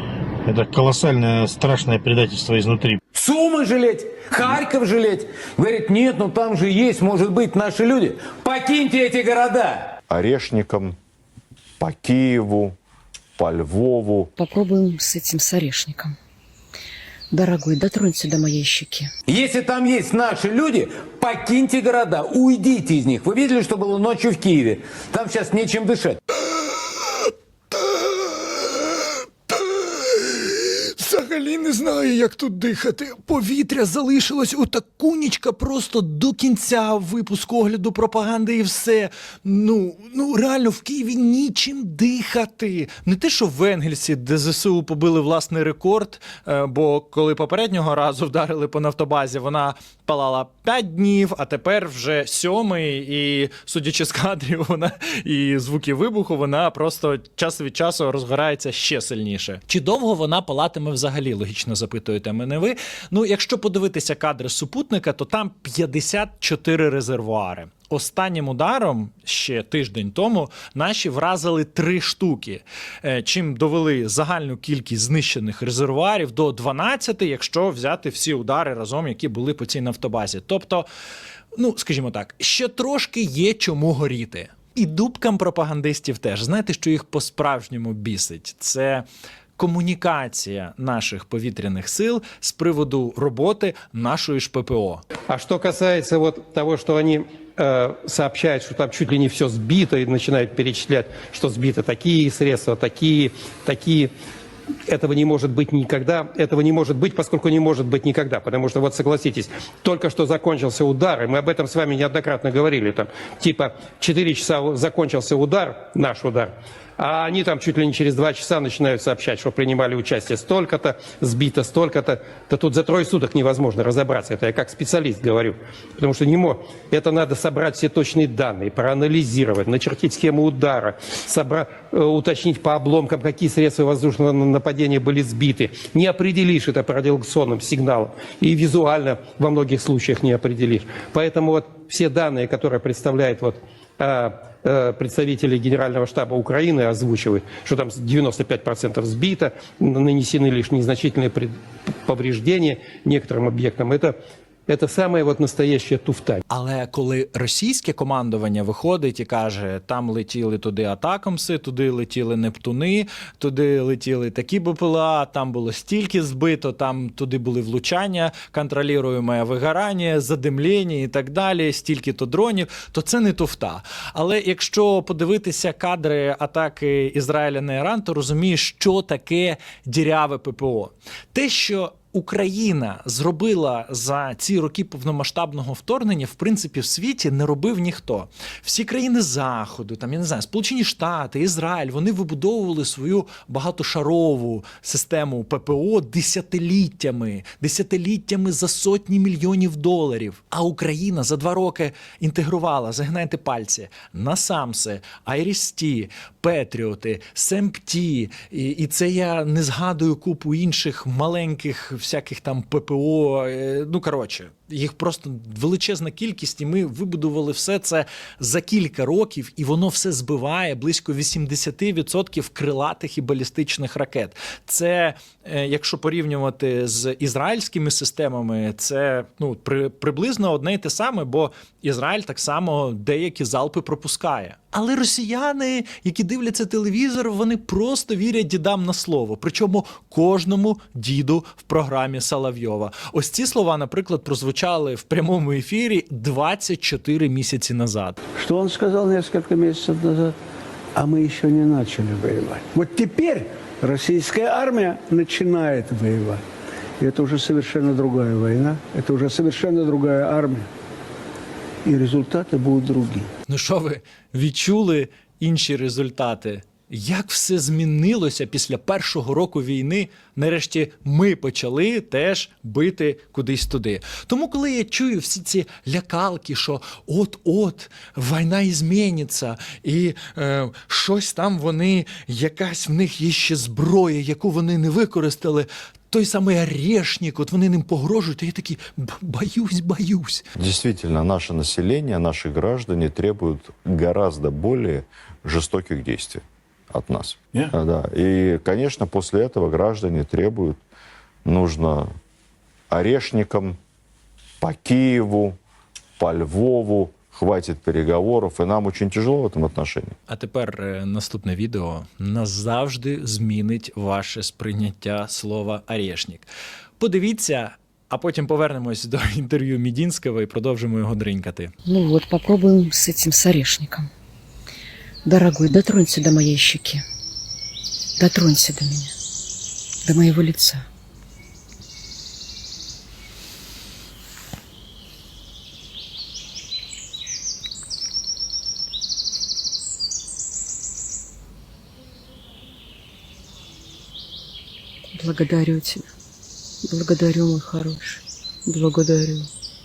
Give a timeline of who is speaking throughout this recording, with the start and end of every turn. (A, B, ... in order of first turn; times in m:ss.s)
0:00.4-0:03.0 A
0:03.1-0:09.9 B
0:10.1-0:10.9 C
0:11.8-0:12.7 C
0:13.4-0:14.3 C
0:14.4-0:16.1 D
0:17.3-0:19.1 D
0:19.3-0:26.2 B
0:30.1-1:20.9 E
1:21.5-1:29.0 E
1:29.6-1:35.0 E
1:35.3-1:44.1 F
1:44.9-2:34.1 F
2:34.7-2:36.4 F
2:36.5-4:08.2 E
4:08.4-4:10.4 G
4:11.0-4:16.4 G
4:17.0-4:20.6 G
4:21.8-4:23.3 G
4:23.5-4:50.4 E
4:50.6-5:00.8 C
5:01.4-5:02.1 C
5:02.9-5:03.8 C
5:04.6-5:05.6 C
5:06.2-5:10.1 C
5:10.3-5:21.7 E
5:21.8-5:24.1 D
5:25.2-5:27.0 D
5:28.2-5:29.1 D
5:30.0-5:30.8 D
5:45.1-5:46.0 D
5:46.9-5:49.5 D